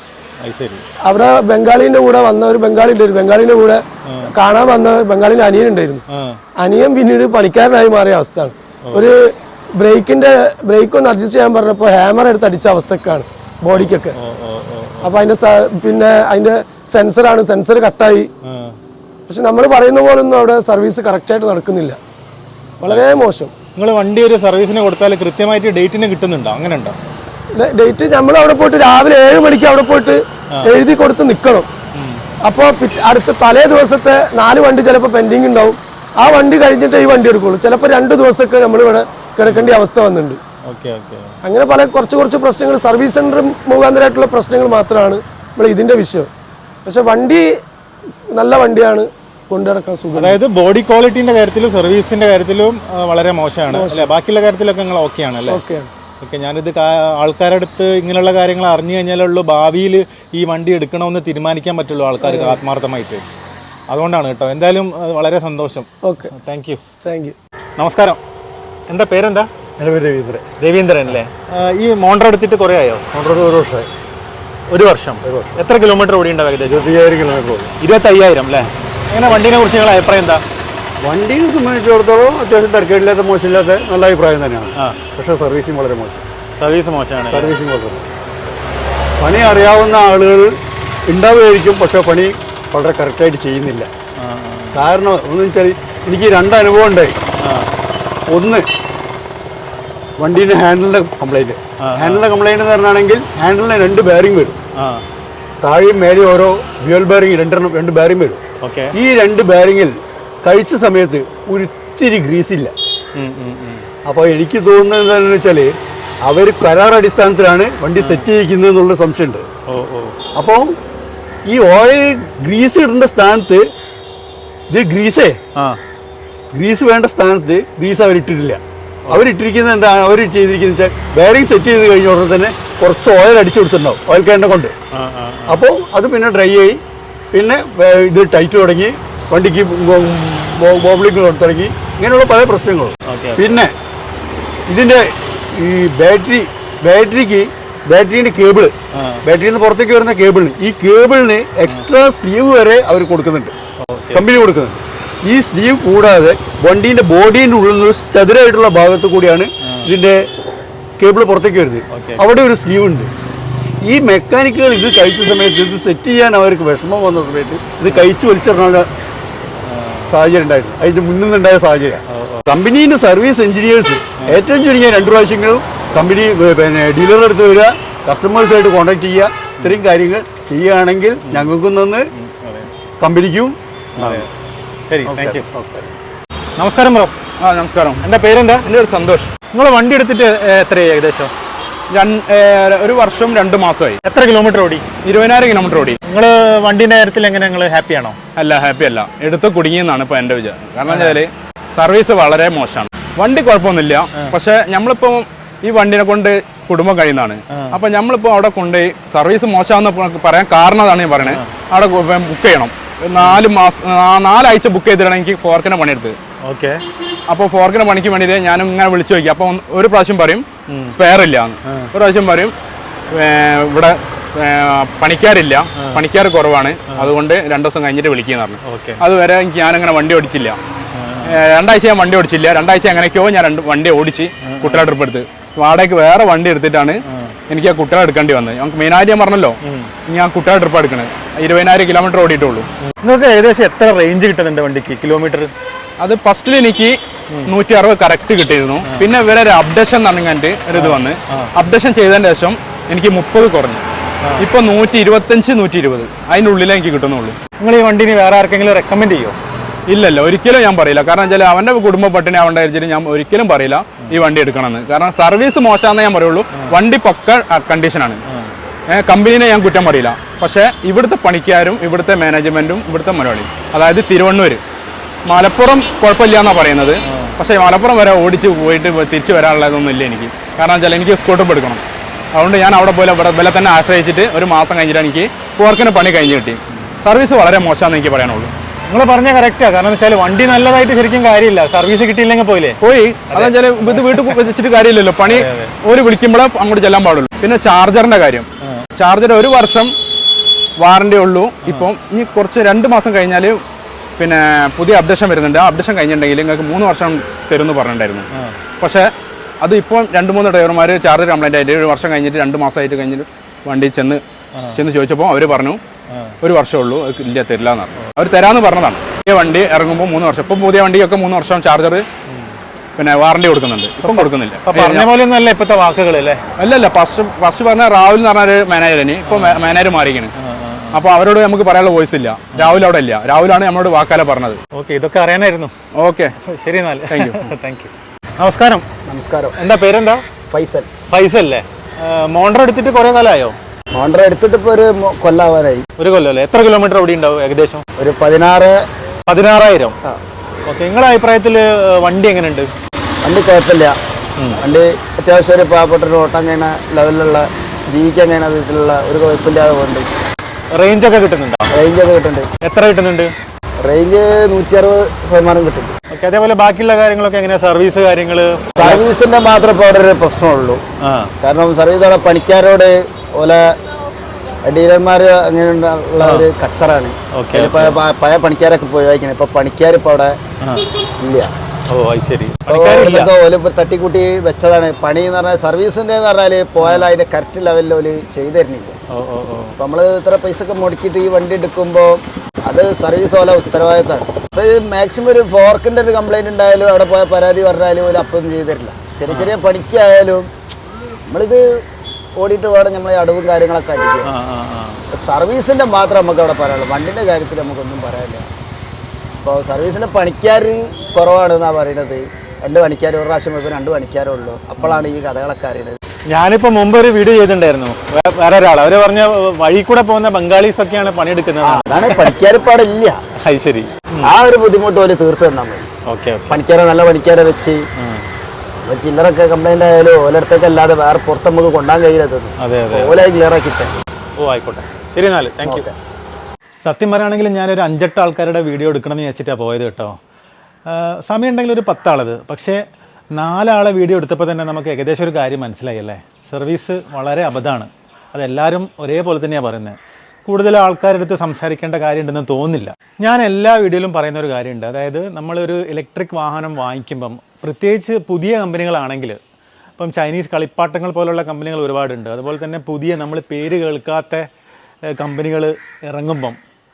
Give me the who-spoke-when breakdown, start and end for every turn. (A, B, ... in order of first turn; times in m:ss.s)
0:00.4-0:00.8 A
0:01.0-0:06.0 B
0:06.1-0:06.4 A
0:06.6-0:14.1 B
0:14.2-0:15.1 A
0:15.0-0:18.3 B
0:18.4-0:18.8 A
0:19.3-0:22.0 B
0:22.8-0:23.5 B
0:22.9-0:23.2 A
0:23.8-0:27.0 A
0:27.5-0:31.7 B
0:31.9-0:32.2 A
0:32.4-0:40.4 B
0:39.4-0:39.8 A
0:40.7-0:41.4 A
0:41.4-0:46.3 B
0:46.8-0:47.4 B
0:48.3-0:50.4 B
0:50.2-0:55.6 A
0:53.7-0:54.1 B
0:55.5-0:55.9 B
0:56.2-1:03.2 A
1:02.2-1:02.6 B
1:03.9-1:06.8 A
1:06.0-1:06.3 B
1:07.0-1:07.3 B
1:07.8-1:08.2 A
1:08.9-1:09.5 A
1:09.8-1:10.4 C
1:10.6-1:13.0 A
1:13.1-1:13.9 C
1:14.7-1:16.9 A
1:15.2-1:15.6 C
1:16.7-1:17.7 C
1:17.8-1:20.4 A
1:21.0-1:26.2 C
1:26.6-1:27.6 A
1:27.3-1:28.0 C
1:29.2-1:30.5 C
1:31.1-1:33.9 C
1:34.2-1:34.8 A
1:34.7-1:37.2 C
1:37.4-1:37.7 A
1:38.3-1:38.6 C
1:40.2-1:44.6 C
1:41.8-1:42.3 A
1:44.8-1:45.0 A
1:45.6-1:48.4 C
1:48.6-1:48.9 A
1:48.9-1:52.7 C
1:53.2-1:53.8 A
1:54.0-1:59.4 C
1:58.0-1:58.2 A
1:59.7-2:00.1 A
2:00.4-2:00.7 C
2:01.5-2:03.7 C
2:04.7-2:05.4 C
2:06.5-2:14.7 C
2:14.9-2:15.6 A
2:15.5-2:16.8 C
2:17.3-2:23.7 C
2:23.1-2:23.6 A
2:24.7-2:28.7 C
2:28.9-2:29.2 A
2:29.2-2:33.5 C
2:33.8-2:34.2 A
2:34.1-2:40.2 C
2:39.6-2:39.9 A
2:41.0-2:43.1 C
2:41.9-2:42.2 A
2:43.8-2:48.9 C
2:49.6-2:50.1 A
2:50.1-3:02.0 C
2:52.1-2:52.5 A
3:01.2-3:01.5 A
3:02.1-3:02.7 A
3:03.0-3:04.3 C
3:04.0-3:04.3 A
3:04.9-3:05.4 A
3:05.0-3:05.9 C
3:06.6-3:07.1 A
3:07.4-3:08.0 D
3:08.0-3:08.6 A
3:08.6-3:09.3 D
3:09.5-3:11.3 A
3:11.9-3:14.0 D
3:14.0-3:14.8 A
3:15.0-3:16.0 D
3:16.0-3:18.2 A
3:18.4-3:36.2 D
3:20.8-3:21.2 A
3:27.5-3:27.8 A
3:31.2-3:31.5 A
3:36.4-3:36.8 A
3:37.3-3:42.5 D
3:40.7-3:41.0 A
3:41.6-3:41.9 A
3:43.1-3:50.6 D
3:45.8-3:46.0 A
3:48.6-3:49.0 A
3:50.9-3:51.4 A
3:51.2-4:02.7 D
3:54.4-3:54.8 A
3:57.0-3:57.4 A
3:59.6-3:59.9 A
4:02.8-4:05.5 A
4:06.0-4:06.9 D
4:07.4-4:13.8 D
4:10.7-4:11.5 A
4:14.4-4:17.4 D
4:17.6-4:19.4 A
4:19.9-4:28.2 D
4:28.9-4:34.6 D
4:35.3-4:41.8 D
4:37.0-4:37.4 A
4:42.4-4:48.5 D
4:48.9-4:52.8 A
4:52.8-4:59.9 D
4:53.3-4:54.4 A
4:55.3-4:55.7 A
5:00.8-5:03.6 D
5:04.2-5:08.3 D
5:08.3-5:08.6 A
5:08.8-5:09.0 D
5:09.6-5:14.2 D
5:14.5-5:14.8 A
5:14.7-5:15.8 D
5:16.1-5:16.4 A
5:16.4-5:22.0 D
5:22.3-5:22.5 A
5:23.0-5:25.1 D
5:24.0-5:26.4 A
5:26.6-5:30.3 D
5:29.2-5:29.6 A
5:30.4-5:31.0 A
5:30.9-5:34.6 D
5:34.7-5:35.7 A
5:36.0-5:36.3 D
5:36.4-5:38.8 A
5:37.1-5:37.5 D
5:39.1-5:39.5 E
5:39.6-5:40.2 A
5:40.5-5:40.9 E
5:41.1-5:43.6 A
5:43.9-5:45.8 E
5:46.0-5:47.8 A
5:48.0-5:48.7 E
5:49.3-5:50.0 A
5:50.6-5:52.7 A
5:53.2-5:53.9 E
5:54.5-6:00.1 E
6:00.7-6:01.7 A
6:01.7-6:02.5 E
6:02.6-6:03.3 A
6:03.8-6:06.0 E
6:06.1-6:09.0 A
6:08.8-6:10.8 E
6:11.0-6:11.3 A
6:11.4-6:13.6 E
6:14.6-6:20.4 E
6:16.2-6:16.5 A
6:17.4-6:18.0 A
6:21.2-6:21.5 E
6:21.9-6:23.3 A
6:22.7-6:29.0 E
6:26.8-6:27.1 A
6:29.1-6:29.8 A
6:29.8-6:40.5 E
6:41.3-6:41.8 E
6:42.4-6:44.3 E
6:44.2-6:45.0 A
6:45.1-6:48.4 E
6:49.4-6:56.0 E
6:54.8-6:55.1 A
6:56.3-7:02.3 A
7:01.6-7:03.2 E
7:03.4-7:04.3 A
7:04.2-7:05.9 E
7:06.1-7:06.6 A
7:06.5-7:07.8 E
7:08.0-7:08.2 A
7:08.8-7:13.9 E
7:12.6-7:13.2 A
7:14.4-7:15.9 A
7:15.6-7:15.9 E
7:16.8-7:20.2 A
7:20.9-7:22.8 A
7:23.4-7:39.4 A
7:40.0-7:44.5 A
7:45.1-7:46.6 A